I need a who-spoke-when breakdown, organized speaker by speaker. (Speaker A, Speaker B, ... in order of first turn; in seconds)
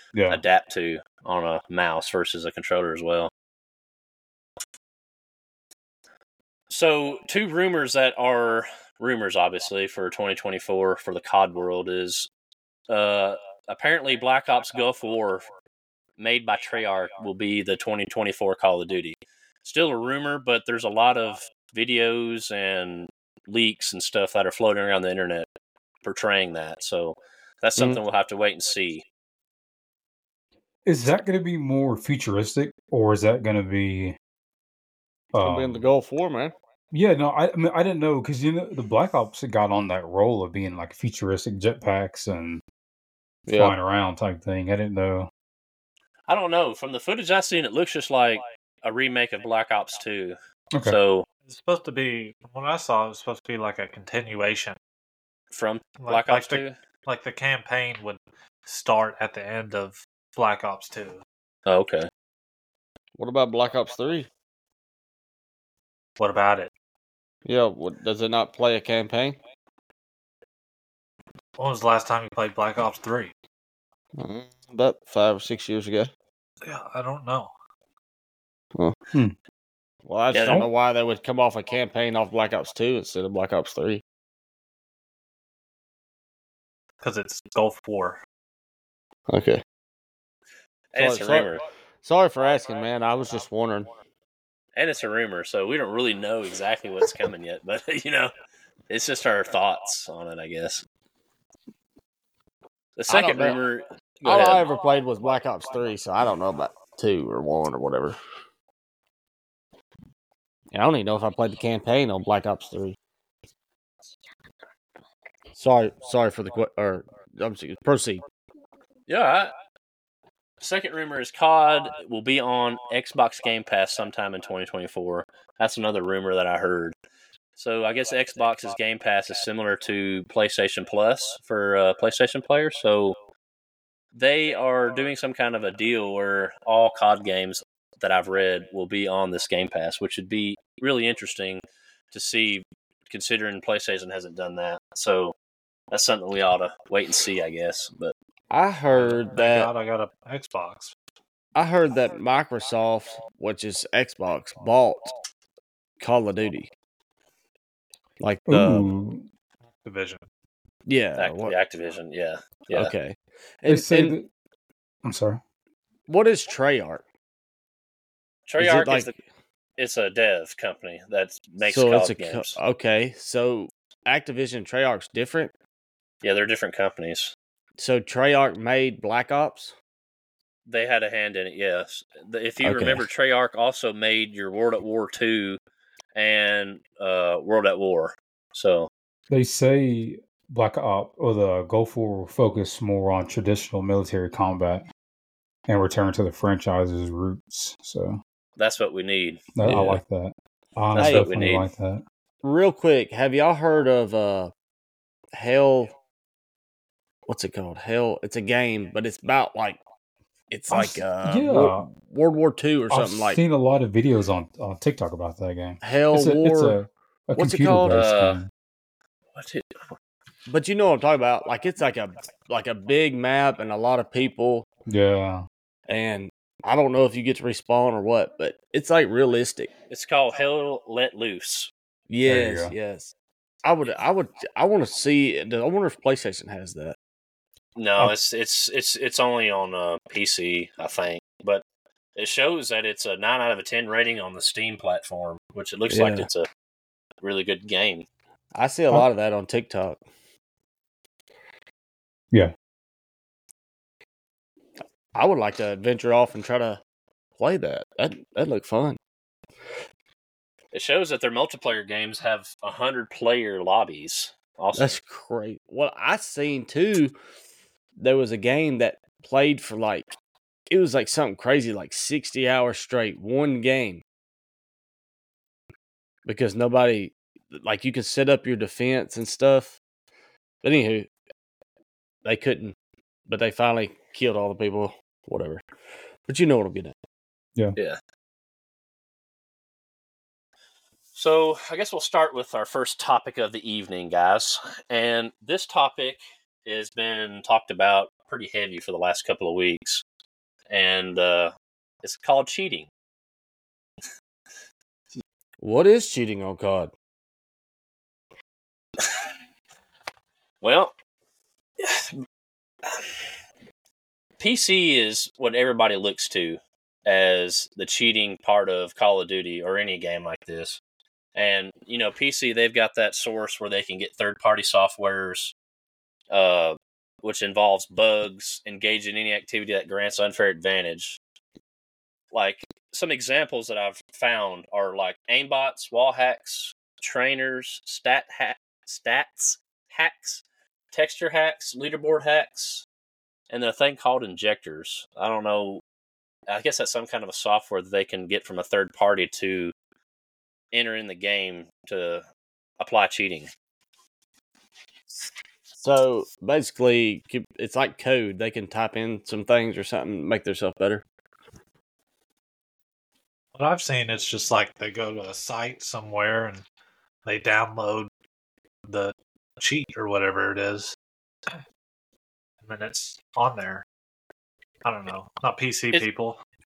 Speaker A: 0.1-0.4, 30.9-34.2, 35.3-35.8, 36.9-42.6, 43.5-45.3, 50.7-51.0, 80.5-80.7, 158.5-159.2, 163.7-164.3, 165.1-165.4, 189.3-194.9, 195.7-198.2, 199.6-202.0, 210.7-211.8, 212.9-218.5, 224.9-225.5, 232.2-232.8
Speaker B: 0.3-3.3, 6.7-12.3, 12.9-15.4, 16.2-25.5, 26.0-29.1, 46.3-51.3, 55.5-56.8, 61.7-62.1, 80.3-80.6, 90.9-91.6, 94.8-98.3, 98.9-100.8, 103.0-104.6, 119.1-119.5, 120.6-126.9, 127.6-133.2, 134.1-145.3, 145.9-148.1, 161.2-162.9, 168.5-169.1, 169.8-172.6, 176.2-177.3, 180.7-185.6, 186.2-188.9, 198.6-199.6, 200.9-201.7, 217.9-218.4, 219.3-219.7, 229.9-231.7, 237.8-241.6, 242.2-246.5, 247.2-248.1, 260.7-265.0, 291.1-300.0, 300.7-301.5, 302.0-302.9, 310.6-310.9, 311.8-312.2, 314.4-320.8, 321.4-325.5, 326.3-331.2, 332.3-342.9, 343.5-345.8, 346.5-349.7, 350.7-352.2, 352.8-353.5
Speaker C: 35.4-36.5, 43.5-43.7, 63.2-64.3, 67.5-69.4, 74.2-76.1, 80.1-84.0, 89.3-89.6, 91.0-93.9, 103.1-103.6, 104.2-108.2, 110.7-113.0, 115.5-118.2, 148.5-149.7, 151.6-155.1, 156.0-156.7, 158.2-158.9, 160.9-161.5, 162.7-164.2, 166.1-167.0, 168.6-169.2, 171.6-175.5, 177.8-179.7, 182.6-183.0, 199.6-199.9, 201.0-201.3, 202.4-204.5, 205.3-205.9, 207.3-209.8, 210.5-213.4, 215.8-216.8, 217.3-218.1, 220.5-224.7, 225.9-229.7, 232.1-233.1, 233.6-237.0, 245.9-246.3, 248.6-250.0, 255.1-256.8, 257.4-259.0, 264.8-267.1, 268.0-270.1, 270.7-274.0, 276.2-279.8, 280.6-281.1, 282.2-282.8, 283.3-285.6, 286.3-287.0, 305.6-306.9, 355.8-361.0
Speaker D: 51.5-54.8, 56.0-61.2, 66.2-66.7, 71.6-73.3, 76.6-77.5, 87.0-88.2, 148.9-150.9, 159.8-160.2, 363.6-366.6, 367.3-368.1, 368.9-370.9, 372.6-373.9, 374.8-376.4